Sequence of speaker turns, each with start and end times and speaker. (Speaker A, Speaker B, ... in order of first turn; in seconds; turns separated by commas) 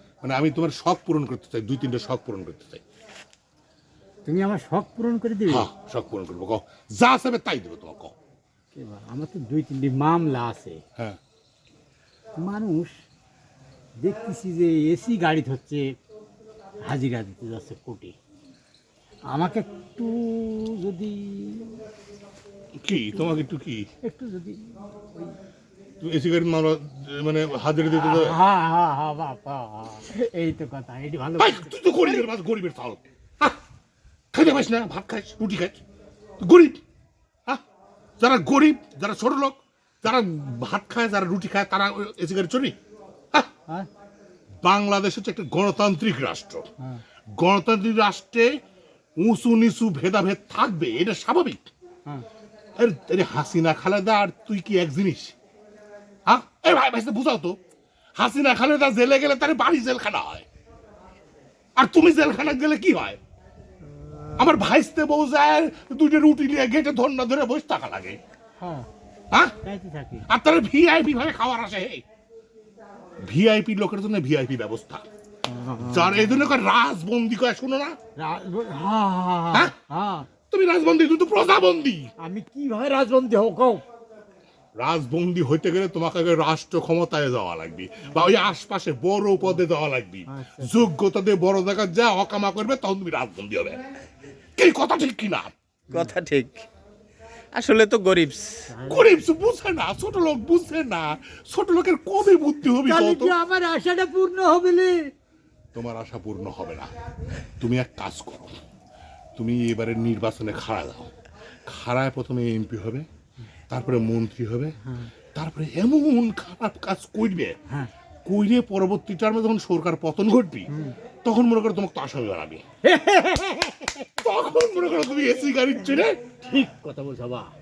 Speaker A: 0.2-2.8, Speaker B: 4.2-5.7, Speaker A: 5.5-8.2, Speaker B: 8.7-10.8, Speaker B: 12.4-13.0, Speaker B: 14.0-15.9, Speaker B: 16.9-18.2, Speaker B: 19.3-21.8, Speaker A: 22.8-23.9, Speaker B: 24.0-25.4, Speaker A: 26.0-28.4, Speaker B: 27.9-32.3, Speaker A: 31.4-33.6, Speaker A: 34.3-35.8, Speaker A: 36.4-36.8, Speaker A: 38.2-42.8, Speaker A: 44.6-46.7, Speaker A: 47.3-48.6, Speaker A: 49.2-51.7, Speaker A: 52.8-55.4, Speaker A: 56.3-57.6, Speaker A: 58.2-60.5, Speaker A: 61.8-63.2, Speaker B: 63.8-64.7, Speaker A: 64.4-68.2, Speaker B: 68.6-68.9, Speaker B: 69.6-70.3, Speaker A: 70.3-72.0, Speaker A: 73.2-75.0, Speaker B: 75.5-76.5, Speaker A: 75.8-78.0, Speaker B: 78.2-80.3, Speaker A: 80.5-82.1, Speaker B: 82.2-83.8, Speaker A: 84.8-93.8, Speaker B: 90.3-90.9, Speaker A: 94.6-95.5, Speaker B: 95.9-96.2, Speaker C: 95.9-96.6, Speaker C: 97.5-98.7, Speaker B: 98.7-99.2, Speaker A: 98.8-103.3, Speaker B: 102.8-105.1, Speaker A: 105.7-106.9, Speaker A: 107.6-108.6, Speaker A: 109.4-111.1, Speaker A: 111.7-113.1, Speaker A: 113.7-114.8, Speaker A: 115.3-117.6, Speaker A: 118.2-120.7, Speaker B: 120.7-121.0, Speaker A: 121.2-122.7, Speaker B: 122.8-124.3, Speaker A: 124.2-126.2, Speaker B: 126.4-127.5